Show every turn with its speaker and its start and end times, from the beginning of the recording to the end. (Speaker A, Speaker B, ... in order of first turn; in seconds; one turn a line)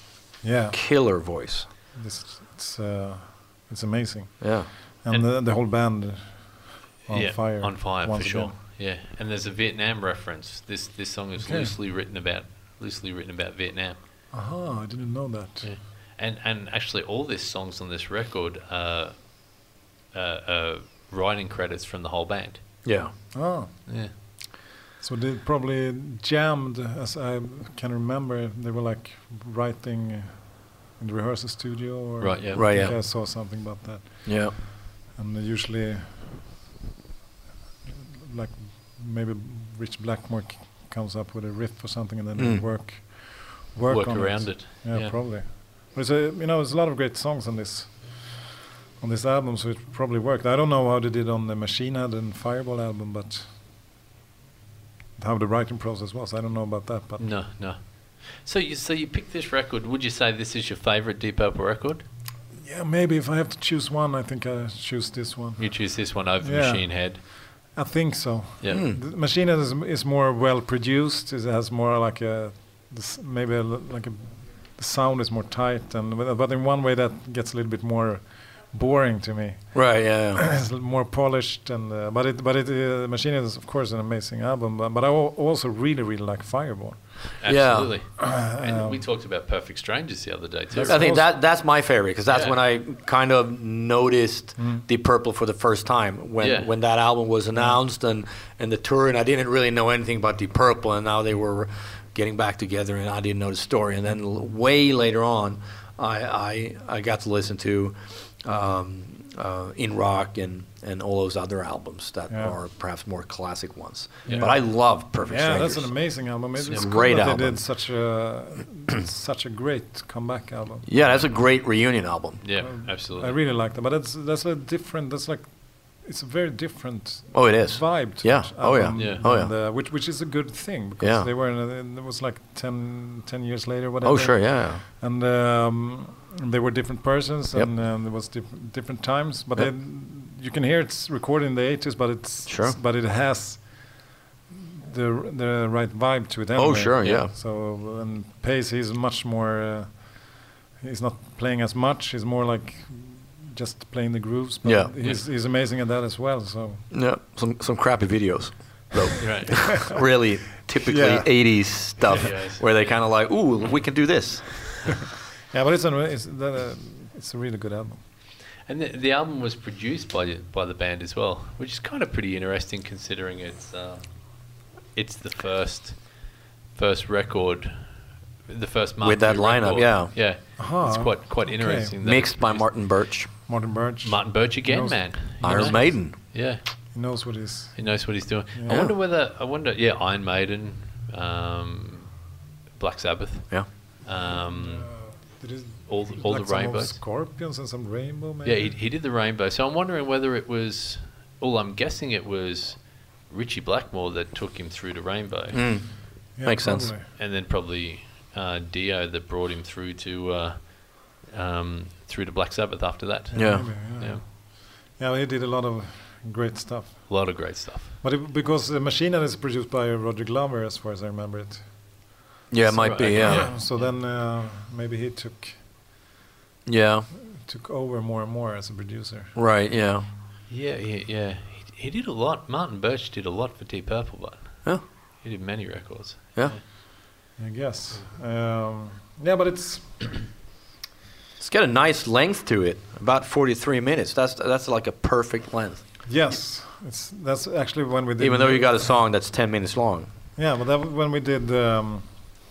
Speaker A: 0.4-0.8
Speaker B: 0.7-1.7
Speaker A: 1.9-8.6
Speaker B: 4.4-4.7
Speaker C: 7.1-14.0
Speaker A: 11.4-11.8
Speaker A: 14.3-15.7
Speaker C: 15.6-19.3
Speaker C: 20.1-22.6
Speaker B: 22.9-23.1
Speaker A: 23.3-23.7
Speaker C: 23.9-24.1
Speaker A: 25.0-34.6
Speaker C: 32.2-32.6
Speaker B: 32.5-33.0
Speaker B: 34.3-34.5
Speaker A: 35.1-36.2
Speaker A: 38.1-48.4
Speaker B: 42.4-42.6
Speaker C: 43.9-45.1
Speaker A: 49.0-53.5
Speaker A: 55.2-57.3
Speaker C: 57.2-62.0
Speaker A: 62.6-79.8
Speaker C: 65.6-67.2
Speaker B: 68.7-69.0
Speaker B: 79.7-80.4
Speaker A: 80.3-87.0
Speaker C: 87.4-91.2
Speaker B: 87.5-87.9
Speaker A: 88.2-89.0
Speaker A: 90.7-91.3
Speaker B: 90.9-115.9
Speaker C: 92.3-92.6
Speaker A: 94.6-94.8
Speaker C: 96.4-96.7
Speaker C: 114.3-114.5
Speaker A: 114.3-114.6
Speaker A: 115.2-121.2
Speaker B: 116.7-117.6
Speaker B: 120.9-122.4
Speaker C: 122.4-123.3
Speaker A: 122.6-143.8
Speaker B: 127.3-129.5
Speaker C: 128.9-129.2
Speaker B: 131.0-131.3
Speaker B: 134.0-134.8
Speaker B: 142.5-142.8
Speaker A: 144.5-156.8
Speaker B: 146.6-147.3
Speaker B: 154.7-154.9
Speaker B: 156.9-165.0
Speaker C: 159.2-159.6
Speaker A: 159.5-159.9
Speaker A: 160.8-161.3
Speaker C: 162.1-162.9
Speaker A: 165.5-168.0
Speaker C: 168.7-176.2
Speaker C: 176.7-182.7
Speaker B: 179.0-180.1
Speaker A: 180.6-182.0
Speaker B: 182.0-183.3
Speaker A: 183.5-185.9
Speaker C: 184.0-186.6
Speaker B: 185.4-186.2
Speaker A: 186.9-187.9
Speaker C: 187.8-192.2
Speaker A: 188.5-188.8
Speaker B: 188.7-188.9
Speaker C: 192.8-194.9
Speaker A: 194.2-198.8
Speaker C: 195.9-197.0
Speaker C: 198.4-205.6
Speaker B: 205.5-206.9
Speaker A: 206.3-207.1
Speaker C: 207.2-214.2
Speaker A: 213.3-221.7
Speaker B: 213.3-213.7
Speaker C: 217.1-218.0
Speaker B: 222.5-223.5
Speaker C: 222.7-223.9
Speaker A: 223.2-225.6
Speaker B: 226.7-227.1
Speaker A: 227.2-229.3
Speaker B: 229.3-230.1
Speaker C: 230.5-236.6
Speaker A: 237.4-240.3
Speaker B: 241.4-245.8
Speaker A: 246.1-248.9
Speaker B: 248.2-250.1
Speaker A: 250.4-252.1